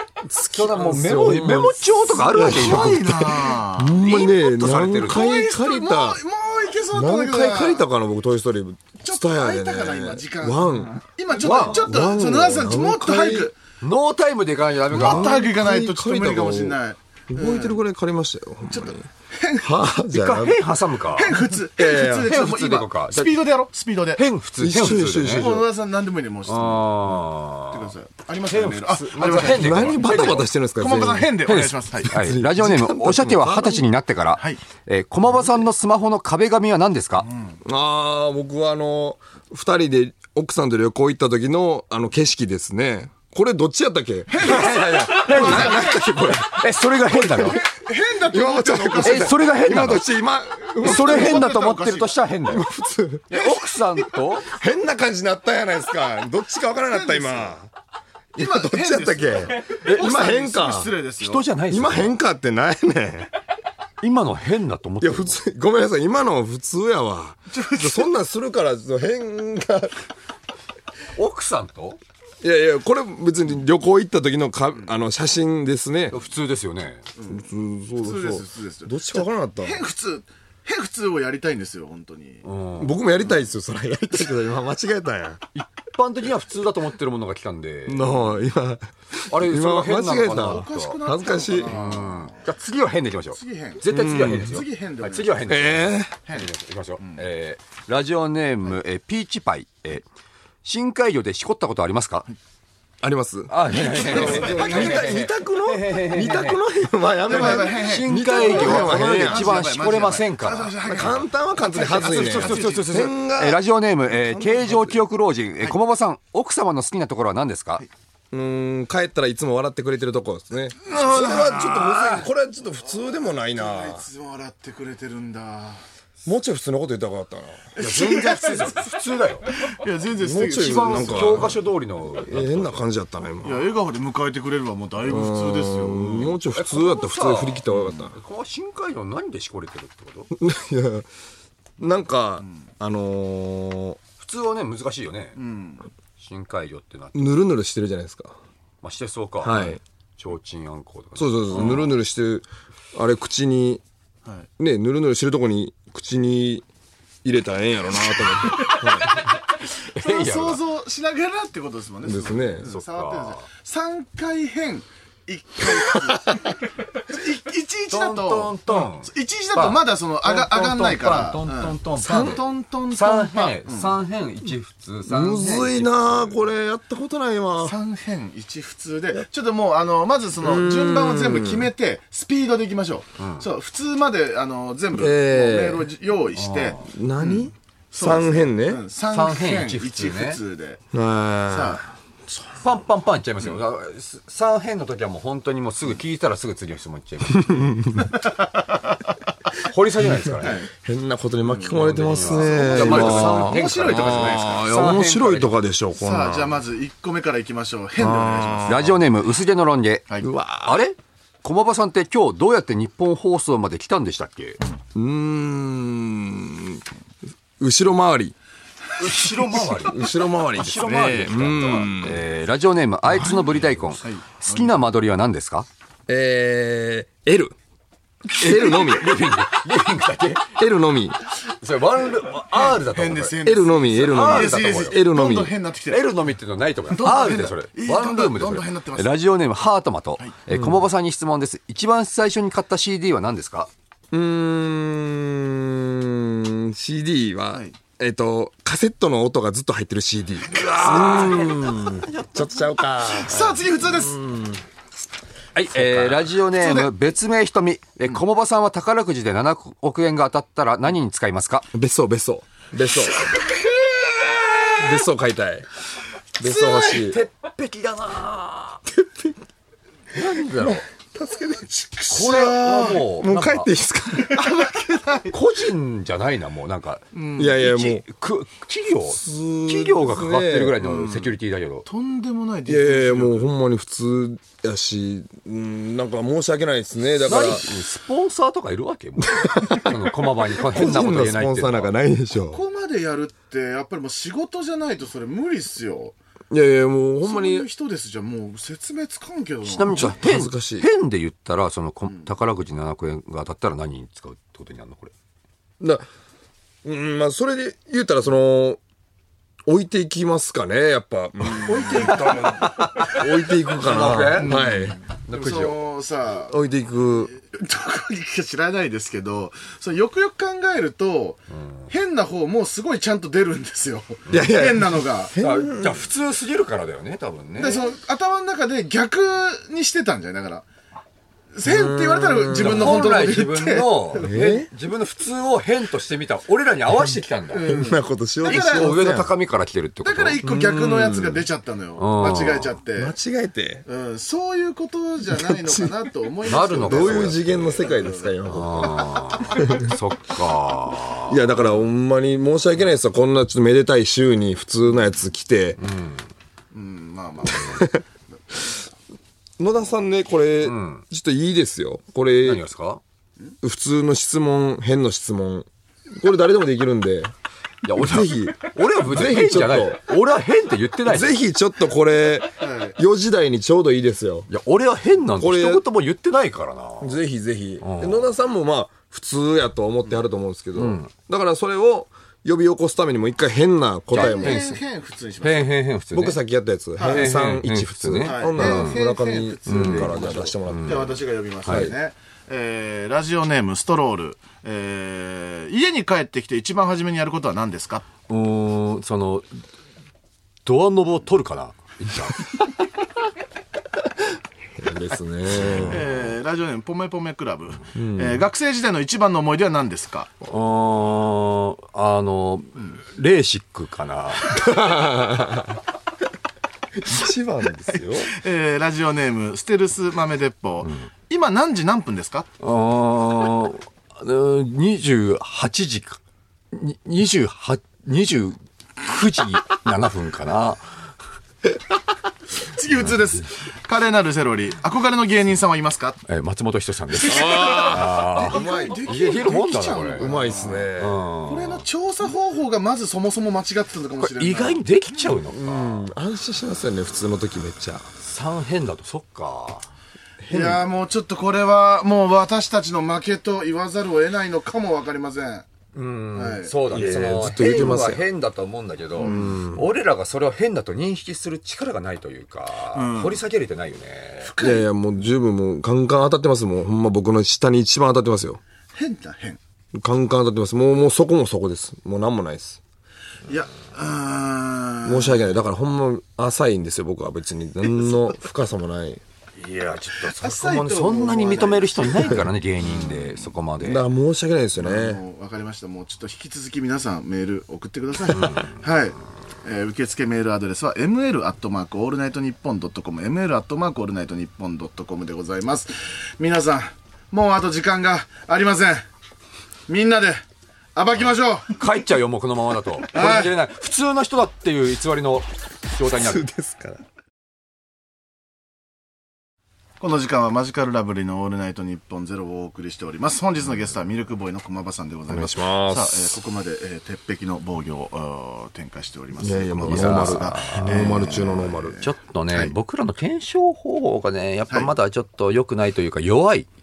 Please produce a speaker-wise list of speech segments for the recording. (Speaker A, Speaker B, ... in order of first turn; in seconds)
Speaker A: 0.3-3.4, 4.0-5.4, 11.4-11.8, 13.8-15.3, 20.1-21.4, 22.1-23.4, 24.2-25.6, 26.5-27.9, 28.5-30.5, 31.4-37.3, 44.4-47.6, 49.0-50.1, 50.8-52.6, 53.3-54.5, 59.7-60.2, 61.2-62.2, 64.0-65.3, 71.1-72.0, 76.1-77.0, 82.4-83.0, 85.5-88.1, 89.3-91.0, 91.7-100.0, 100.6-102.3, 103.5-106.6, 107.3-110.8, 111.8-117.8, 128.0-129.5, 130.6-132.8, 136.5-140.3, 144.2-145.4, 146.2-147.4, 148.8-152.0, 158.3-160.6, 162.6-163.4, 167.9-176.4, 183.2-183.4, 186.3-186.9, 189.1-190.4, 192.6-197.8, 199.5-200.6, 201.7-205.6, 208.7-210.0, 210.6-214.6, 219.0-225.7, 228.4-230.6, 231.4-233.3, 234.0-235.0, 235.9-243.7, 250.5-252.9, 255.5-261.7, 266.4-268.8, 270.1-270.8, 272.1-273.7, 275.3-277.0, 277.5-281.9, 287.2-291.9, 299.7-305.1, 311.5-315.8, 325.4-327.9, 332.6-337.7, 338.4-340.4, 342.0-342.7, 346.4-347.8, 348.5-351.4, 355.8-356.3, 360.6-361.0, 362.4-363.0, 367.8-371.4, 374.5-377.2, 377.8-378.3, 380.7-381.1, 384.1-384.8, 385.4-386.4, 387.0-388.9, 389.7-391.1, 391.6-391.9, 398.3-399.5, 400.6-402.4, 405.5-406.1, 410.4-414.6, 422.6-426.2, 426.7-430.9, 436.2-440.3, 441.0-441.8, 444.2-446.1, 448.2-449.9, 455.9-464.5, 479.6-484.0, 488.3-488.7, 501.7-506.4, 519.8-521.5, 522.0-526.7
Speaker B: 0.3-6.2, 6.9-13.5, 14.9-16.8, 17.3-19.1, 19.6-20.6, 21.8-22.3, 24.6-25.6, 29.2-31.4, 32.0-33.8, 37.6-47.7, 48.3-51.5, 52.5-53.6, 54.4-57.7, 58.3-61.0, 61.7-63.3, 65.0-70.0, 72.4-76.2, 77.3-79.8, 82.8-85.5, 87.9-91.8, 93.9-94.5, 95.5-96.1, 103.0-109.6, 110.8-115.0, 118.3-124.0, 126.2-128.7, 130.2-131.6, 132.2-133.7, 135.0-138.1, 140.3-141.1, 141.8-144.0, 147.1-148.3, 149.4-149.8, 151.2-153.8, 154.6-156.7, 157.2-159.2, 162.0-162.7, 172.0-172.4, 175.1-177.8, 180.4-181.7, 184.9-185.9, 186.9-188.8, 190.9-191.9, 197.5-198.0, 200.4-206.6, 208.0-208.9, 210.2-210.8, 214.9-216.8, 217.6-218.3, 219.7-222.2, 226.1-227.5, 228.3-229.1, 230.5-231.2, 233.4-235.5, 240.5-240.8, 244.1-254.6, 261.7-263.3, 264.7-265.7, 266.4-267.2, 269.0-269.3, 270.6-274.6, 277.4-278.0, 279.1-280.8, 282.7-287.7, 289.2-292.6, 296.5-297.7, 299.9-300.9, 305.8-306.1, 306.8-308.8, 309.6-315.0, 316.5-317.3, 324.3-326.1, 331.6-333.2, 334.2-334.7, 337.6-339.3, 340.4-341.4, 342.9-343.8, 345.3-345.9, 346.8-349.9, 351.3-355.8, 357.5-358.0, 359.6-362.6, 363.6-367.3, 367.9-370.0, 371.1-374.5, 375.4-375.8, 377.0-384.8, 386.1-391.1, 391.7-391.9, 404.8-406.1, 407.9-408.4, 414.5-415.8, 417.0-418.3, 437.2-439.2, 440.1-441.2, 445.4-448.1, 450.4-450.8, 456.9-458.2, 459.2-459.8, 464.6-468.6, 469.9-472.8, 475.0-479.2, 482.2-482.4, 483.8-485.2, 506.1-507.0, 515.3-516.3, 519.4-522.0
Speaker C: 2.1-4.0, 5.0-7.8, 9.0-13.5, 14.9-17.8, 18.7-19.7, 21.1-24.2, 25.2-32.2, 37.3-37.5, 44.3-45.9, 47.4-49.4, 50.8-52.2, 56.9-57.5, 58.4-61.4, 67.5-68.1, 77.2-77.4, 78.0-82.4, 90.2-92.5, 93.3-95.4, 103.7-105.0, 107.2-113.0, 120.8-122.2, 123.0-125.8, 127.7-131.5, 133.4-136.4, 137.7-138.1, 145.3-145.9, 159.8-173.9, 177.6-190.8, 191.5-191.8, 200.4-200.7, 201.4-204.5, 205.9-209.0, 224.0-224.7, 232.5-236.1, 236.9-239.1, 253.0-254.2, 255.9-256.9, 272.0-273.0, 274.3-275.3, 277.1-277.6, 280.8-281.3, 281.9-283.5, 292.5-296.1, 297.2-300.2, 311.7-312.3, 314.3-325.3, 327.6-330.6, 331.5-334.3, 337.5-339.1, 340.0-343.1, 343.9-349.8, 356.7-358.8, 372.6-373.0, 384.1-385.7, 387.0-387.3, 388.2-398.0, 405.8-410.3, 417.9-422.5, 432.6-436.2, 437.2-440.9, 441.4-444.8, 450.5-455.7, 456.3-457.1, 459.2-459.6, 462.9-463.4, 464.4-464.9, 468.9-469.6, 473.4-475.4, 480.2-483.2, 484.8-499.1, 499.9-500.4, 500.9-501.8, 503.1-503.6, 510.0-522.7